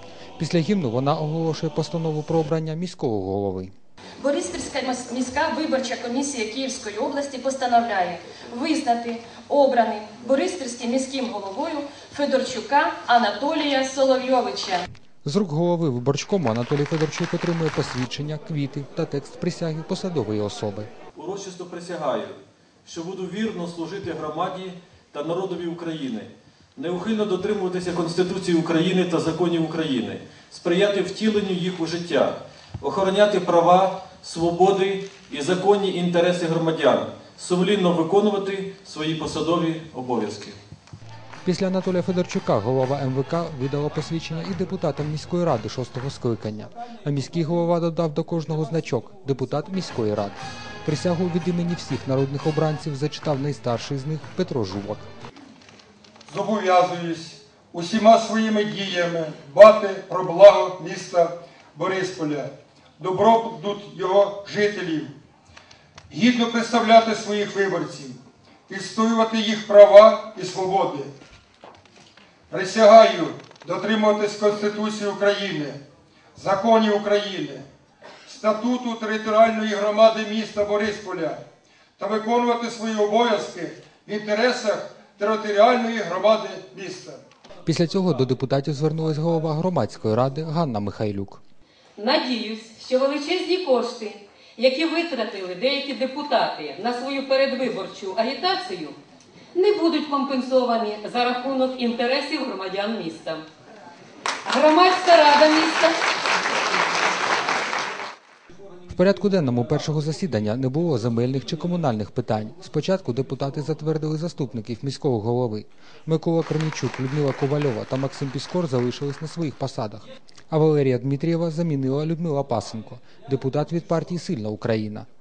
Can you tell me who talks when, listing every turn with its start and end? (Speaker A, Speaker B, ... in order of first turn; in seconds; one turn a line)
Speaker A: 0.4-3.7
Speaker B: 4.2-14.8
Speaker A: 15.2-20.9
Speaker C: 21.1-40.6
Speaker A: 41.5-55.1
Speaker D: 56.3-65.1
Speaker D: 66.1-71.1
Speaker D: 72.5-75.8
Speaker D: 76.4-77.7
Speaker D: 78.2-81.4
Speaker D: 82.0-87.2
Speaker A: 87.7-91.4
Speaker E: 92.0-99.0
Speaker E: 99.5-103.4
Speaker E: 104.5-106.0
Speaker A: 108.9-125.1